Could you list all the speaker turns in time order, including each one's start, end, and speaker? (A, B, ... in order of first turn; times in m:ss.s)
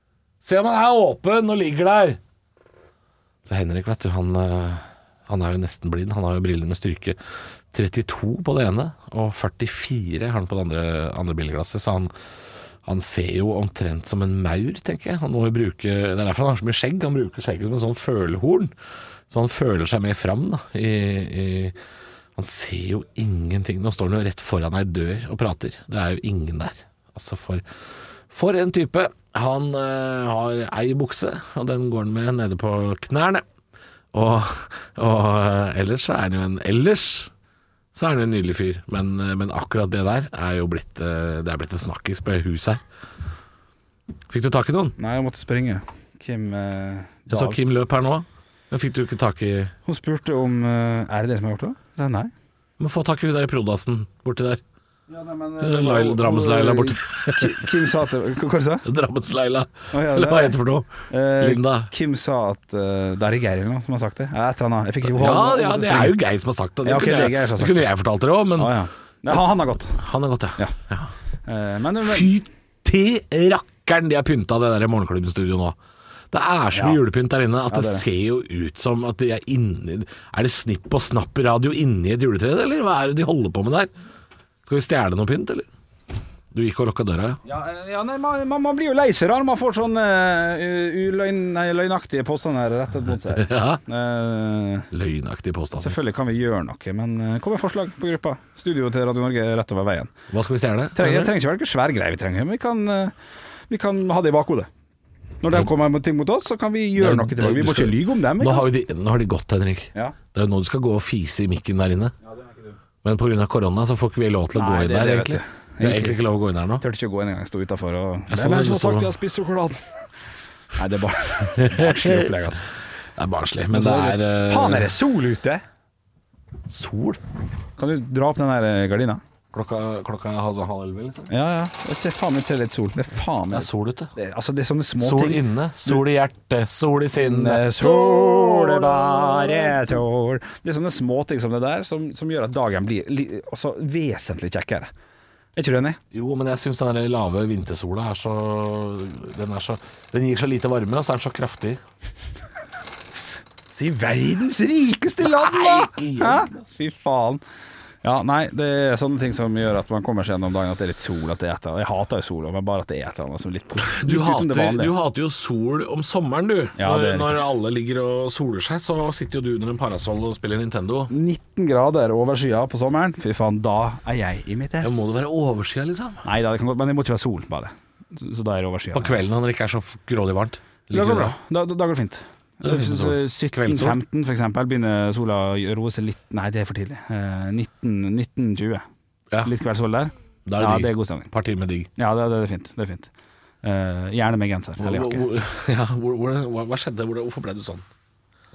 0:00.4-0:02.2 A
0:03.4-0:07.2 A
0:07.7-0:12.1 A
0:12.8-0:18.7 A
0:19.3-0:21.8 A
0:22.4-0:27.6 A
0:28.3-0:33.4 A
0:34.1-0:37.3 A
0:37.9-0:42.8 A
0:44.3-0:45.0 A
0:45.0-0:47.6 B
0:47.3-0:49.7 A
0:49.8-0:52.3 B
0:52.8-0:54.6 A
0:55.1-0:58.8 B
0:55.6-0:57.7 A
0:58.8-1:01.9 A
0:59.9-1:00.6 B
1:01.1-1:06.2 B
1:05.0-1:08.8 A
1:06.8-1:07.8 B
1:08.6-1:10.0 B
1:09.9-1:11.1 A
1:11.4-1:12.3 B
1:12.0-1:15.8 A
1:16.3-1:23.9 A
1:16.7-1:17.0 B
1:17.7-1:18.0 B
1:24.6-1:25.7 A
1:26.5-1:27.4 A
1:27.4-1:34.9 B
1:33.2-1:33.8 A
1:34.9-1:36.0 A
1:35.8-1:40.1 B
1:40.3-1:41.3 A
1:40.9-1:43.1 B
1:43.7-1:44.7 B
1:45.4-1:48.7 B
1:47.0-1:52.1 A
1:52.2-1:52.7 B
1:53.0-1:56.8 A
1:54.5-1:56.2 B
1:56.8-1:59.9 B
1:58.3-1:59.1 A
2:00.7-2:02.6 B
2:01.5-2:02.3 A
2:03.2-2:04.9 A
2:03.7-2:05.6 B
2:06.7-2:07.2 A
2:07.8-2:09.2 B
2:09.5-2:11.3 A
2:11.3-2:16.0 B
2:13.5-2:14.1 A
2:15.0-2:20.0 A
2:17.1-2:24.9 B
2:25.6-2:26.0 B
2:26.1-2:31.8 A
2:33.7-2:37.4 B
2:35.2-2:36.6 A
2:38.0-2:44.9 B
2:43.8-2:51.1 A
2:46.8-2:47.4 B
2:51.1-2:55.2 B
2:54.8-2:56.2 A
2:56.2-2:59.2 B
2:58.9-3:01.3 A
3:00.9-3:08.8 B
3:02.6-3:04.0 A
3:09.4-3:11.3 B
3:10.4-3:11.9 A
3:12.0-3:13.1 B
3:13.6-3:15.2 B
3:14.8-3:17.8 A